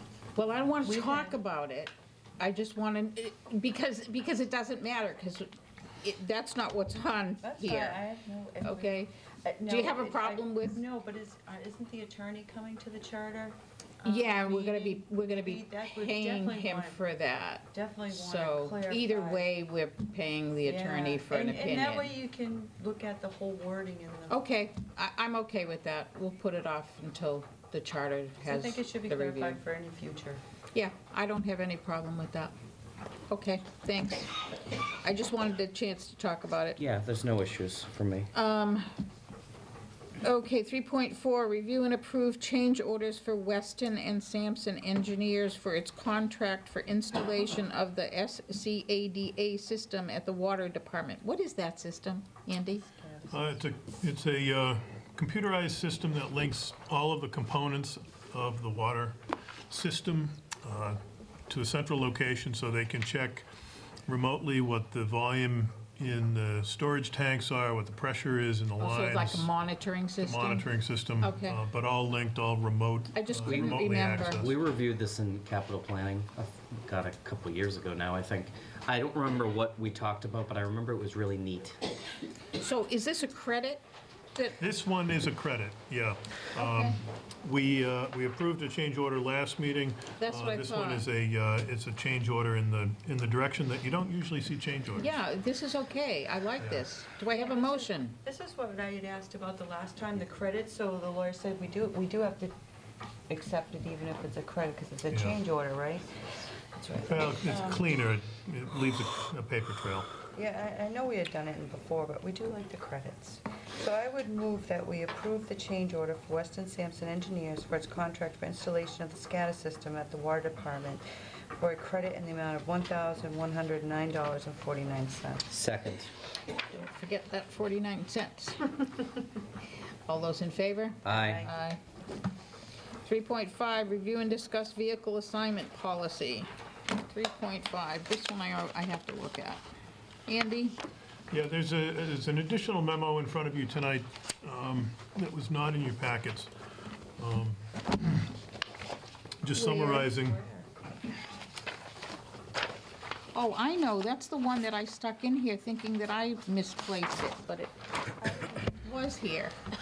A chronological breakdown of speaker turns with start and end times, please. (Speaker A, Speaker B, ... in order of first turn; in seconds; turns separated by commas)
Speaker A: 0.3-8.0, Speaker B: 0.8-1.4, Speaker B: 7.4-17.0, Speaker A: 8.6-9.1, Speaker A: 9.7-10.8, Speaker A: 14.0-22.1, Speaker B: 17.7-19.5, Speaker B: 20.6-24.4, Speaker A: 24.3-29.6, Speaker B: 28.4-30.4, Speaker A: 30.7-32.5, Speaker A: 33.3-34.4, Speaker A: 35.0-36.8, Speaker C: 36.8-38.3, Speaker A: 38.3-38.9, Speaker A: 40.2-52.9, Speaker B: 53.0-53.4, Speaker D: 53.3-63.5, Speaker D: 64.1-69.5, Speaker A: 68.8-70.7, Speaker D: 70.2-74.5, Speaker A: 71.2-71.6, Speaker A: 73.1-74.5, Speaker C: 73.5-81.8, Speaker A: 82.5-83.8, Speaker D: 84.6-95.1, Speaker A: 86.5-87.0, Speaker A: 90.2-91.1, Speaker A: 95.0-98.2, Speaker D: 96.6-96.8, Speaker B: 97.3-102.5, Speaker B: 103.3-106.1, Speaker D: 105.1-105.4, Speaker B: 106.7-107.8, Speaker D: 107.0-110.1, Speaker B: 110.3-121.0, Speaker B: 121.6-125.5, Speaker C: 125.5-126.1, Speaker A: 126.6-129.1, Speaker A: 130.1-131.8, Speaker C: 131.0-131.4, Speaker B: 131.1-131.5, Speaker A: 133.0-139.6, Speaker A: 140.3-140.8, Speaker D: 141.3-146.5, Speaker D: 147.2-148.3, Speaker D: 149.4-150.4, Speaker A: 149.5-150.1, Speaker B: 149.8-150.7, Speaker A: 153.3-157.7, Speaker B: 158.2-158.7, Speaker A: 158.2-159.6